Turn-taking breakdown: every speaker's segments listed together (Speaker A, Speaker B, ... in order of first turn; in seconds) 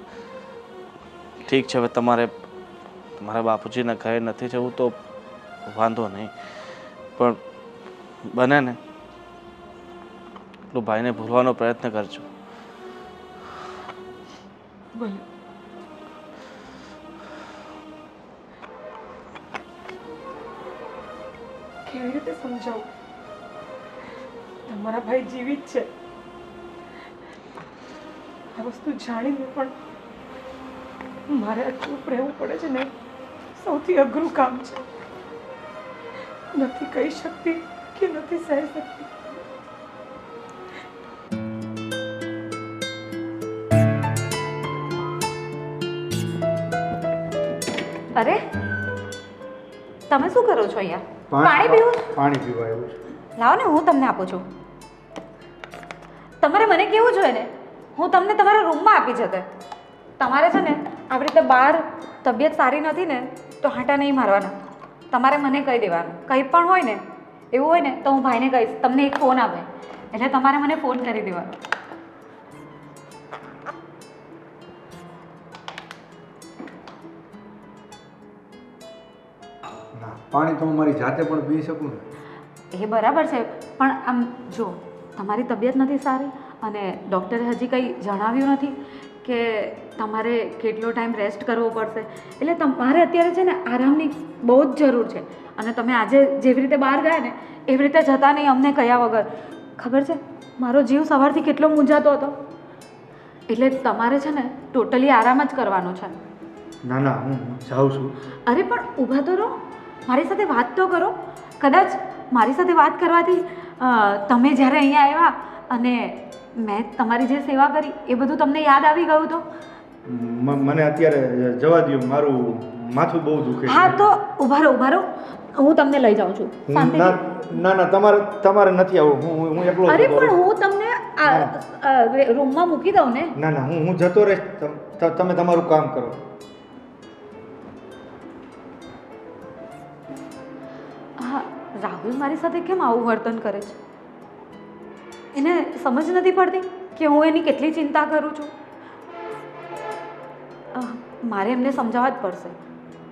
Speaker A: 1.4-2.3, 3.2-5.0, 5.7-6.3, 8.3-8.8, 10.7-12.3
Speaker B: 14.9-15.2, 21.9-22.9, 24.7-25.9, 28.6-29.8, 31.3-32.9, 33.5-34.9, 36.5-39.4
Speaker C: 48.1-48.4, 50.1-52.0, 53.4-54.4, 56.4-59.5, 60.2-64.5, 65.1-67.0, 67.5-71.6, 82.7-102.4, 103.5-106.2, 108.5-119.4, 123.7-127.2, 129.9-133.3, 141.2-143.8, 145.3-148.5, 150.7-152.6
Speaker D: 51.3-53.0, 79.9-82.0, 106.8-108.1, 120.0-124.0, 126.7-130.4, 131.2-131.5, 133.4-136.2